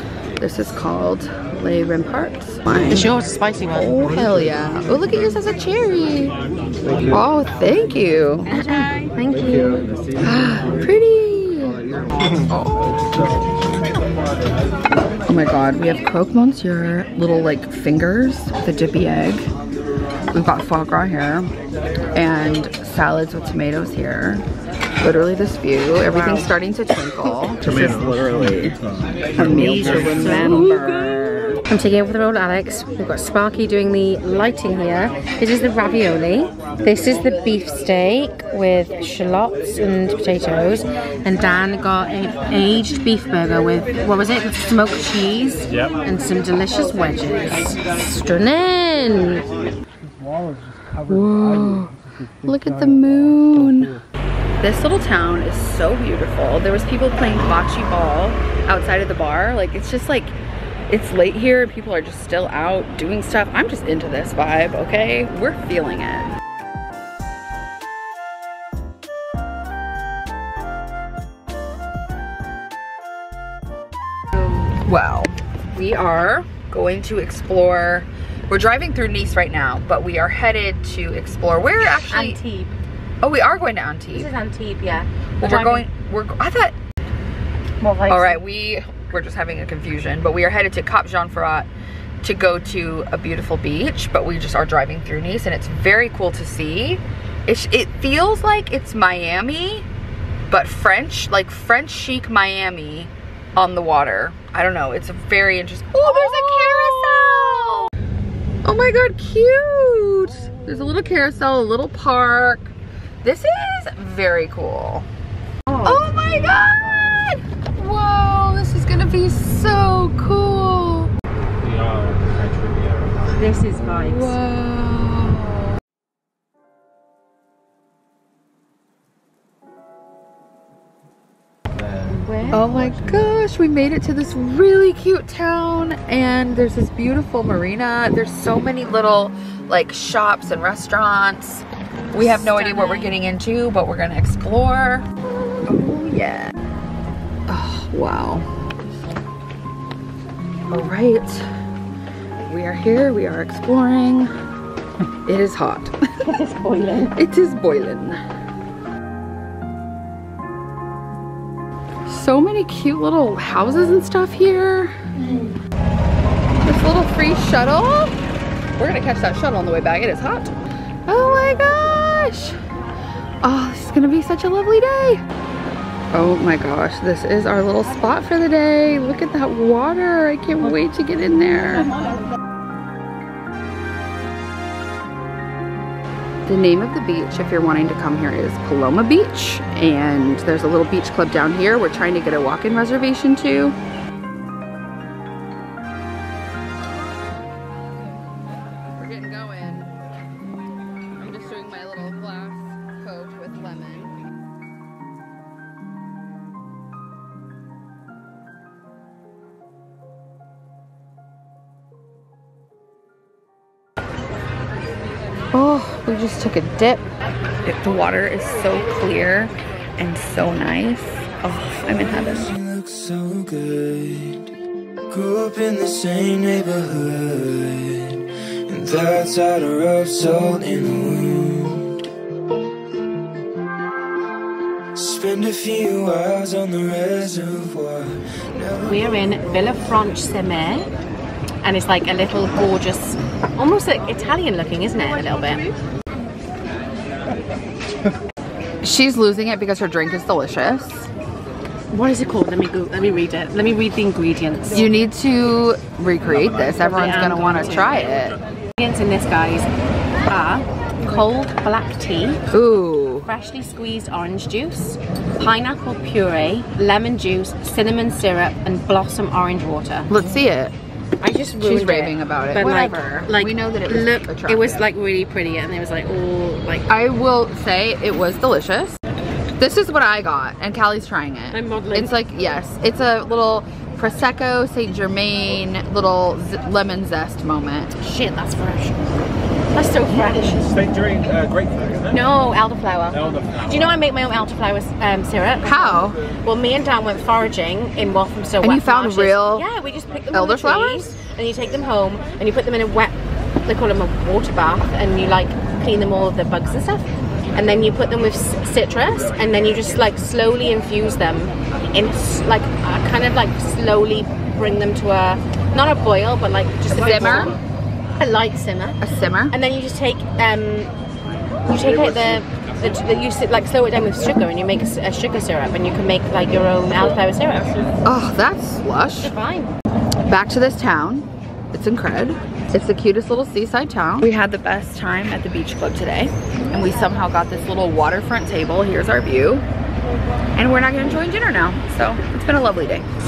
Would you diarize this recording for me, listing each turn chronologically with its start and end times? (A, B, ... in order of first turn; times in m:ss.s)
0:00.4-0:03.1 A
0:02.8-0:04.2 B
0:03.7-0:06.4 A
0:04.1-0:05.2 C
0:06.8-0:07.2 C
0:07.0-0:08.9 A
0:08.5-0:09.9 B
0:09.4-0:10.9 C
0:10.2-0:11.9 A
0:11.8-0:12.5 C
0:12.4-0:13.1 A
0:13.0-0:14.6 D
0:15.3-0:19.5 A
0:20.3-0:21.5 A
0:22.1-0:24.4 A
0:25.0-0:28.2 A
0:26.1-0:26.5 B
0:27.6-0:30.6 C
0:29.3-0:31.6 A
0:29.6-0:30.4 D
0:29.9-0:49.4 B
0:45.7-0:46.0 D
0:50.0-0:54.0 C
0:51.0-0:54.0 A
0:54.6-1:00.3 A
1:00.9-1:06.4 A
1:14.7-1:22.4 A
1:21.8-1:22.7 B
1:23.2-1:24.3 A
1:24.1-1:25.8 B
1:25.4-1:26.8 A
1:27.8-1:28.4 B
1:28.1-1:31.7 A
1:32.2-1:39.9 A
1:40.5-1:47.9 A
1:46.0-1:47.1 B
1:48.6-1:55.1 A
1:55.7-1:56.0 B
1:55.8-2:01.1 A
1:56.2-1:56.7 D
2:01.6-2:03.4 D
2:03.3-2:04.3 B
2:03.9-2:05.7 A
2:12.0-2:12.7 B
2:12.5-2:26.6 A
2:22.1-2:23.1 B
2:27.5-2:28.7 A
2:30.7-2:31.4 A
2:32.4-2:34.3 A
2:35.2-2:36.3 A
2:36.2-2:37.2 B
2:37.1-2:38.2 A
2:42.0-2:45.0 A
2:46.6-2:48.2 A
2:48.8-2:50.6 A
2:51.1-2:52.6 A
2:53.4-2:55.2 A
2:56.1-3:01.9 A
3:06.4-3:13.8 A
3:18.9-3:19.9 A
3:21.2-3:24.2 A
3:35.5-3:37.1 A
3:37.6-3:42.5 A
3:42.2-3:44.5 D
3:45.1-3:52.0 D
3:54.9-3:59.1 D
3:58.9-4:00.9 B
4:01.6-4:05.6 B
4:08.8-4:11.1 A
4:11.9-4:14.9 B
4:14.7-4:18.4 A
4:16.9-4:18.2 B
4:18.8-4:19.7 B
4:20.2-4:22.4 B
4:22.5-4:23.3 A
4:23.2-4:30.1 B
4:30.1-4:30.7 A
4:31.2-4:36.9 B
4:31.6-4:34.7 A
4:36.9-4:39.0 A
4:39.6-4:48.0 A
4:41.5-4:42.1 B
4:48.0-4:49.0 B
4:49.7-4:50.7 B
4:50.5-4:52.1 D
4:52.1-5:17.6 B
4:53.1-4:54.0 D
4:55.6-4:56.2 A
4:58.6-4:59.7 A
5:00.3-5:01.1 A
5:16.9-5:17.6 A
5:18.1-5:20.9 B
5:19.0-5:19.5 A
5:21.6-5:27.9 B
5:28.0-5:29.3 A
5:29.2-5:29.7 B
5:30.3-5:39.6 A
5:40.6-5:43.1 A